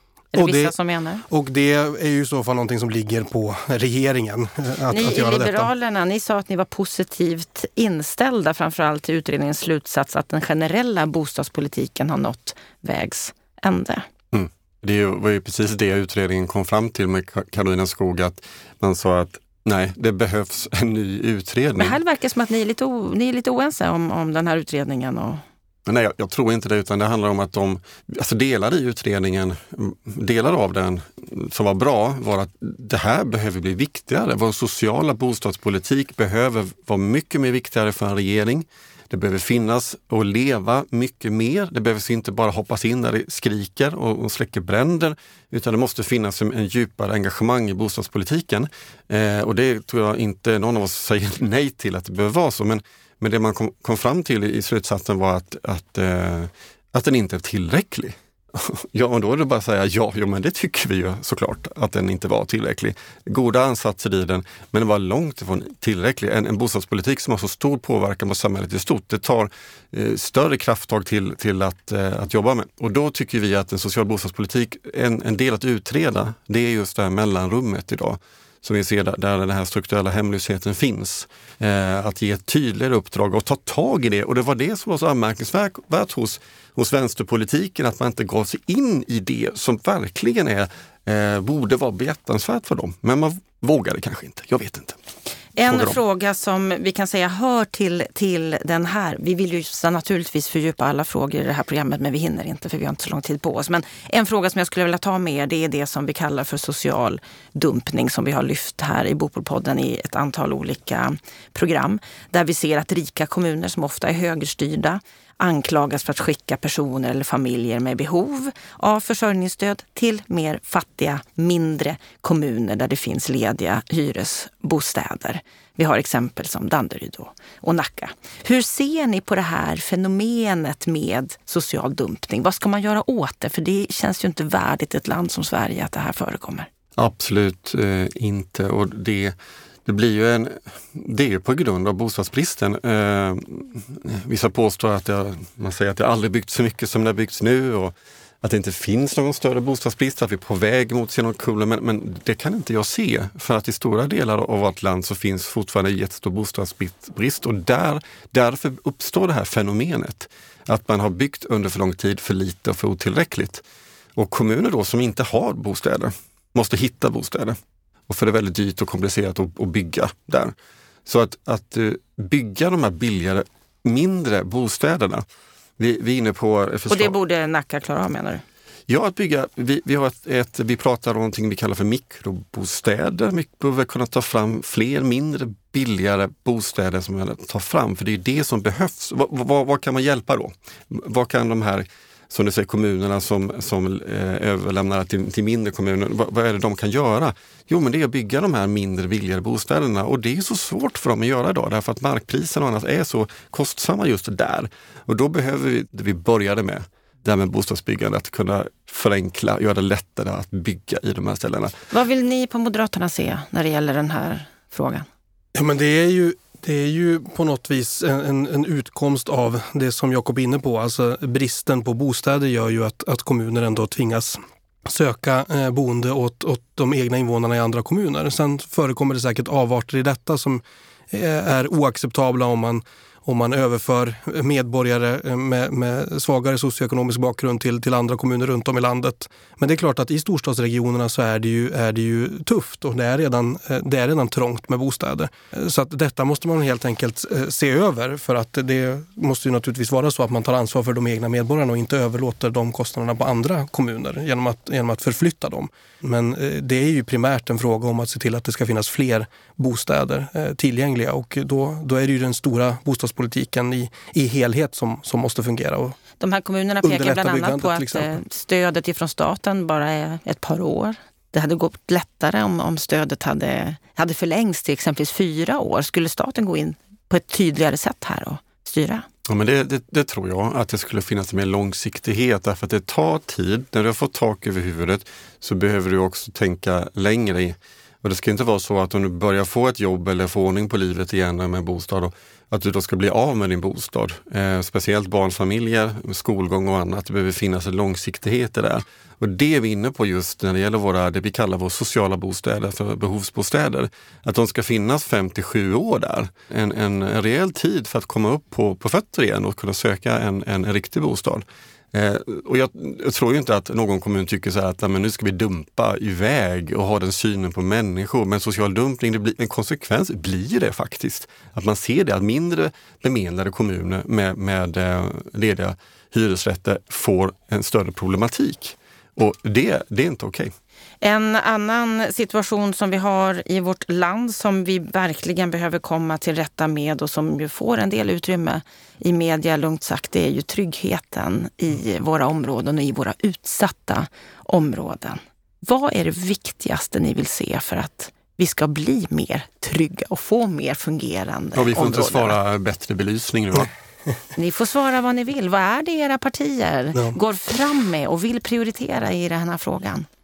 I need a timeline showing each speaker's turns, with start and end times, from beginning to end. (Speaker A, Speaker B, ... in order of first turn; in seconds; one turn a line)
Speaker A: 0.3-1.2
Speaker B: 0.3-0.7
Speaker B: 1.3-5.7
Speaker A: 4.9-14.1
Speaker C: 14.3-22.0
Speaker A: 21.8-25.4
Speaker C: 25.9-95.0
Speaker A: 95.5-136.7
Speaker C: 95.7-96.0
Speaker C: 137.0-163.6
Speaker C: 164.2-167.6
Speaker C: 168.1-170.5
Speaker C: 171.1-175.2
Speaker C: 175.8-177.2
Speaker A: 176.9-178.4
Speaker C: 178.9-211.7
Speaker A: 211.9-215.1
Speaker B: 215.5-266.0
Speaker A: 266.2-279.0
Speaker B: 266.8-268.2
Speaker C: 279.3-330.5
Speaker A: 331.0-352.4
Speaker C: 351.5-353.7
Speaker A: 354.4-360.1